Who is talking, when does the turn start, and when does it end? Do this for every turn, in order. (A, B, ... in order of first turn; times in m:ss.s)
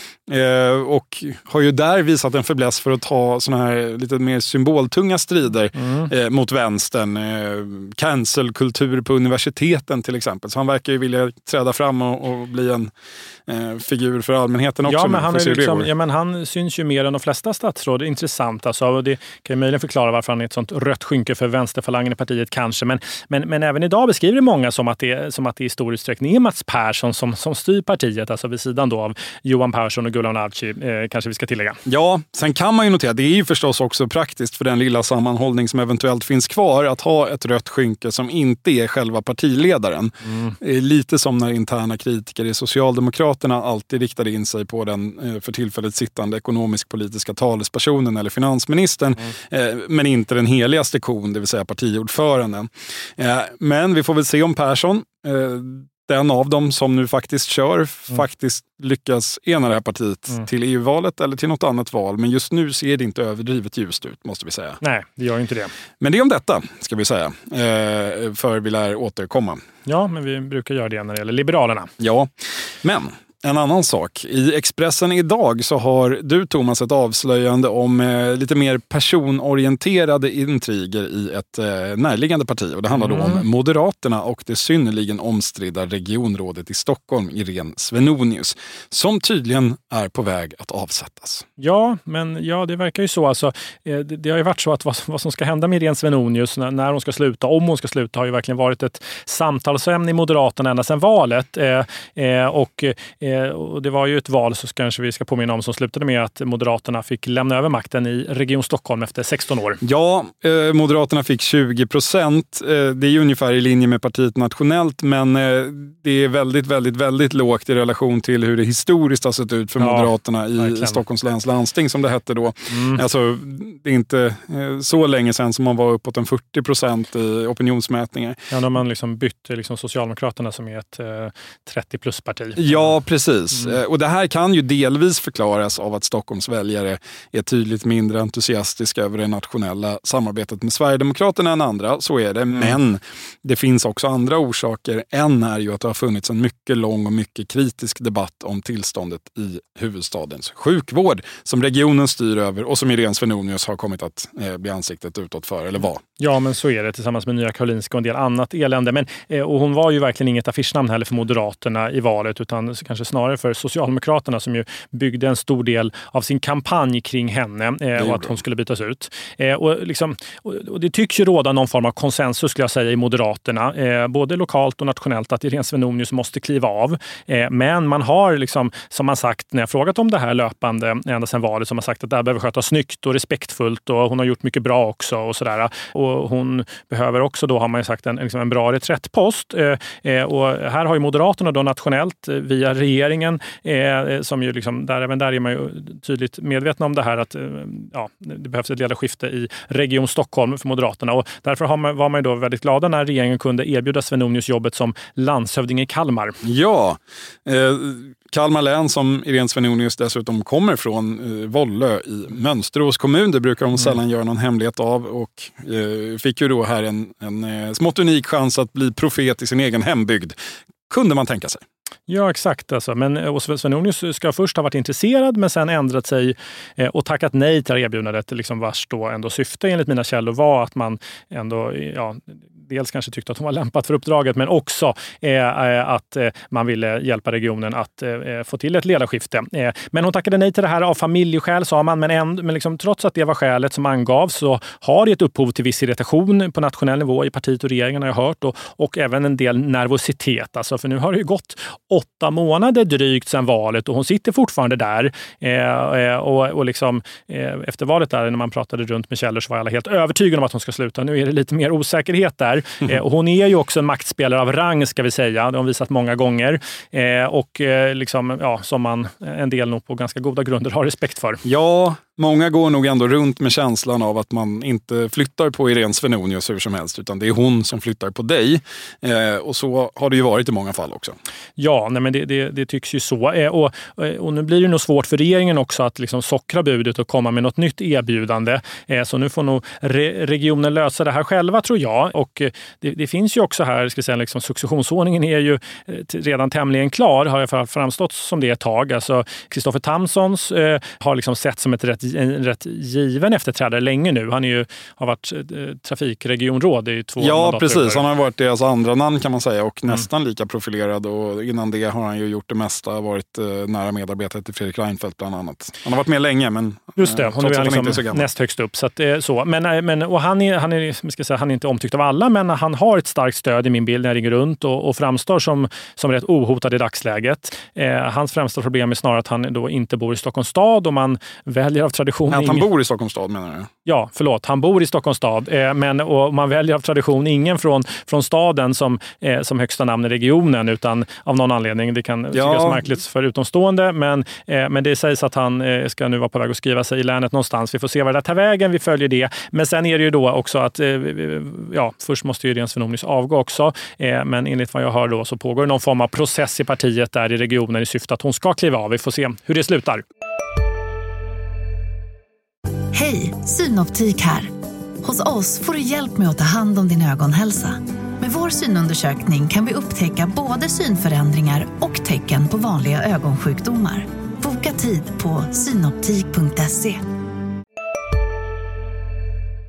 0:00.3-0:12.9 A
0:05.8-0:06.1 B
0:13.5-0:15.9 A
0:14.8-0:31.8 B
0:31.8-1:04.8 A
1:04.8-1:05.7 B
1:06.0-1:09.6 A
1:09.8-1:11.9 B
1:12.0-1:31.4 A
1:22.9-1:23.4 B
1:31.6-1:49.8 B
1:49.8-2:08.4 A
1:59.8-2:01.0 B
2:02.7-2:03.0 B
2:08.5-2:13.0 B
2:12.6-2:36.0 A
2:36.2-3:26.4 B
2:48.0-2:48.4 A
3:26.4-3:40.4 A
3:40.9-3:41.6 A
3:42.1-4:31.4 B
4:31.4-4:41.2 A
4:41.6-5:08.0 B
5:07.2-5:18.3 A
5:17.0-5:32.7 B
5:32.3-5:33.7 A
5:33.8-6:00.0 B
5:42.3-5:42.8 A
6:02.9-6:04.5 C
6:05.0-6:17.0 C